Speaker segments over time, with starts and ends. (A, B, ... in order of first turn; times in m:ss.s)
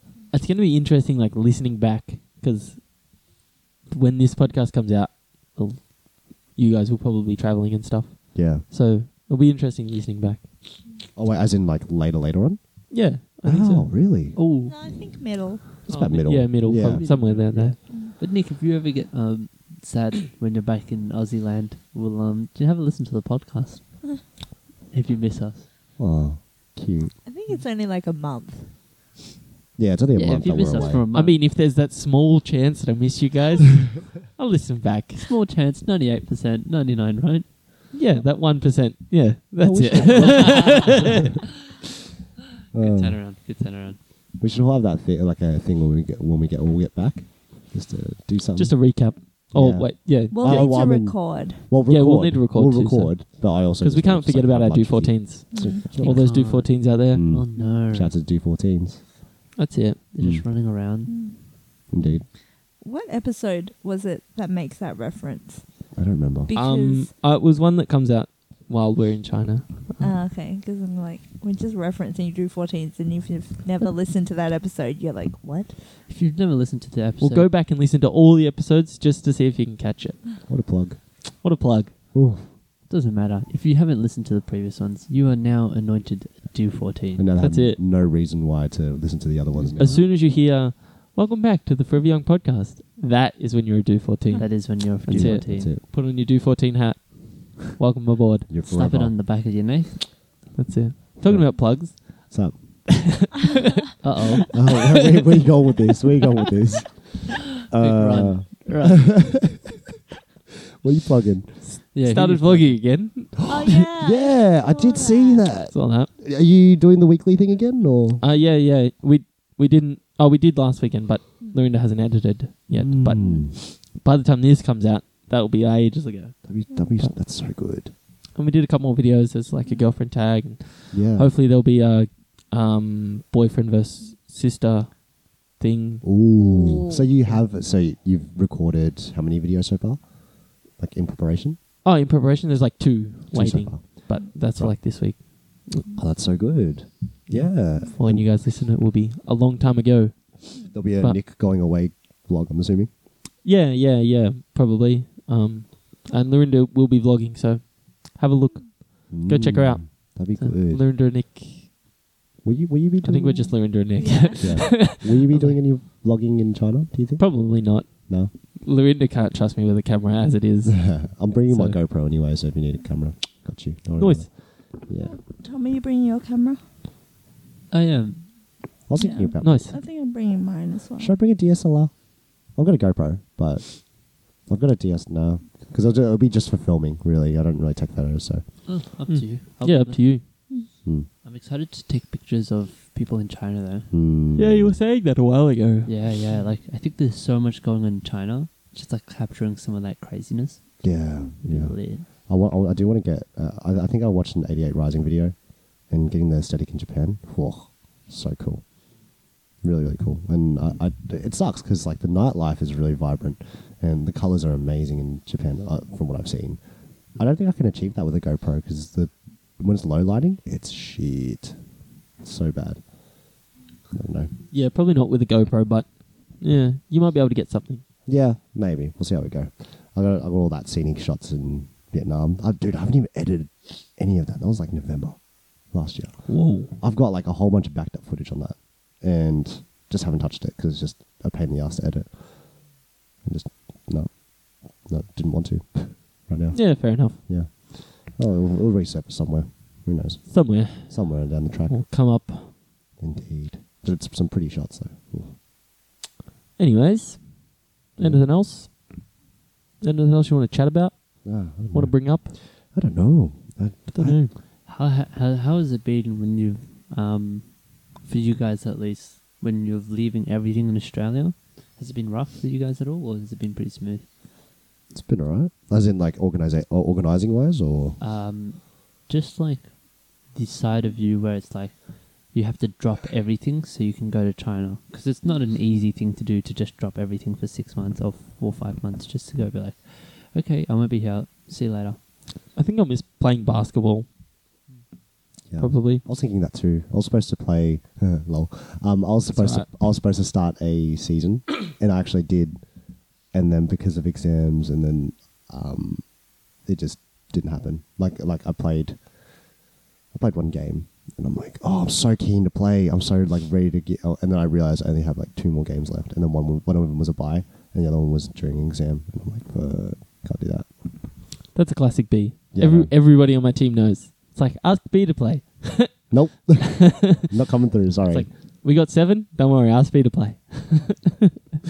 0:00.3-0:02.9 A
0:03.9-0:10.6 A
0:08.3-0:08.6 B
0:11.1-0:14.4 B
0:12.9-0:13.9 A
0:14.3-0:14.8 C
0:14.6-0:15.8 D
0:15.8-0:17.7 B
0:15.9-0:17.8 A
0:16.7-0:24.3 C
0:24.9-0:25.7 C
0:26.0-0:27.1 B
0:27.2-0:28.7 D
0:29.8-0:31.0 B
0:30.1-0:31.4 C
0:31.1-0:35.3 A
0:35.1-0:37.5 C
0:37.9-0:41.3 A
0:39.6-0:41.3 B
0:40.1-0:41.2 C
0:42.7-0:43.2 B
0:42.7-0:44.0 C
0:44.4-0:56.5 B
0:48.6-0:50.7 A
0:50.3-0:51.6 D
0:51.8-0:57.3 A
0:55.5-0:55.8 D
0:55.9-0:58.1 C
0:57.1-0:59.0 B
0:57.6-0:57.8 D
0:59.5-1:00.0 A
1:00.1-1:01.1 C
1:00.2-1:00.5 B
1:01.0-1:01.4 D
1:01.9-1:02.3 B
1:02.7-1:07.1 D
1:05.9-1:06.5 B
1:06.5-1:10.1 A
1:10.0-1:15.9 D
1:16.0-1:17.5 C
1:17.2-1:20.5 A
1:20.5-1:21.3 B
1:21.4-1:21.9 A
1:22.1-1:22.5 B
1:22.9-1:27.3 C
1:27.1-1:30.0 B
1:27.4-1:27.8 A
1:29.5-1:30.1 C
1:29.8-1:38.5 A
1:34.3-1:34.6 D
1:34.4-1:35.7 C
1:35.0-1:35.8 B
1:38.5-1:39.2 B
1:38.6-1:40.2 C
1:40.6-1:44.0 A
1:41.2-1:42.8 B
1:44.0-1:44.6 C
1:44.5-1:49.6 B
1:47.8-1:49.5 C
1:50.8-1:51.7 B
1:51.6-1:53.5 A
1:51.9-1:53.0 C
1:53.5-1:55.5 D
1:53.6-1:58.2 B
1:55.7-1:56.1 A
1:58.2-2:07.2 A
2:02.7-2:03.6 B
2:06.4-2:07.9 B
2:08.3-2:16.1 A
2:10.9-2:11.3 B
2:16.0-2:21.6 B
2:16.4-2:17.4 D
2:21.8-2:25.9 A
2:23.3-2:25.2 B
2:25.9-2:28.3 B
2:27.3-2:31.2 A
2:30.7-2:32.9 B
2:33.4-2:41.7 A
2:39.1-2:40.9 B
2:42.4-2:43.7 B
2:43.0-2:45.5 A
2:43.9-2:44.7 D
2:44.3-2:48.3 B
2:47.2-2:51.8 A
2:50.6-2:55.2 B
2:54.0-2:54.3 A
2:55.0-2:56.6 D
2:57.7-2:58.4 C
2:58.9-2:59.7 B
2:59.0-3:01.1 D
2:59.4-2:59.8 A
3:01.0-3:08.6 B
3:08.6-3:10.2 C
3:09.1-3:10.2 A
3:11.2-3:13.9 C
3:13.9-3:14.8 B
3:14.4-3:16.0 A
3:15.8-3:20.8 C
3:20.8-3:28.6 B
3:21.4-3:22.0 C
3:29.6-3:43.4 B
3:43.9-3:44.4 B
3:44.5-3:47.8 A
3:48.0-4:02.7 B
3:56.2-3:56.7 A
4:03.2-4:11.9 B
4:06.5-4:07.2 A
4:10.3-4:12.5 A
4:13.0-4:15.4 B
4:16.6-4:17.3 A
4:17.9-4:18.8 A
4:18.0-4:18.3 B
4:19.8-4:22.3 A
4:21.2-4:24.3 B
4:23.9-4:24.3 A
4:24.6-4:34.1 C
4:34.9-4:38.0 B
4:38.0-4:52.0 C
4:52.5-4:54.1 A
4:55.5-5:09.5 B
4:55.6-4:56.0 A
4:59.3-4:59.7 A
5:10.1-5:20.9 B
5:21.5-5:27.3 A
5:22.5-5:22.9 B
5:26.1-5:28.3 B
5:28.0-5:31.3 A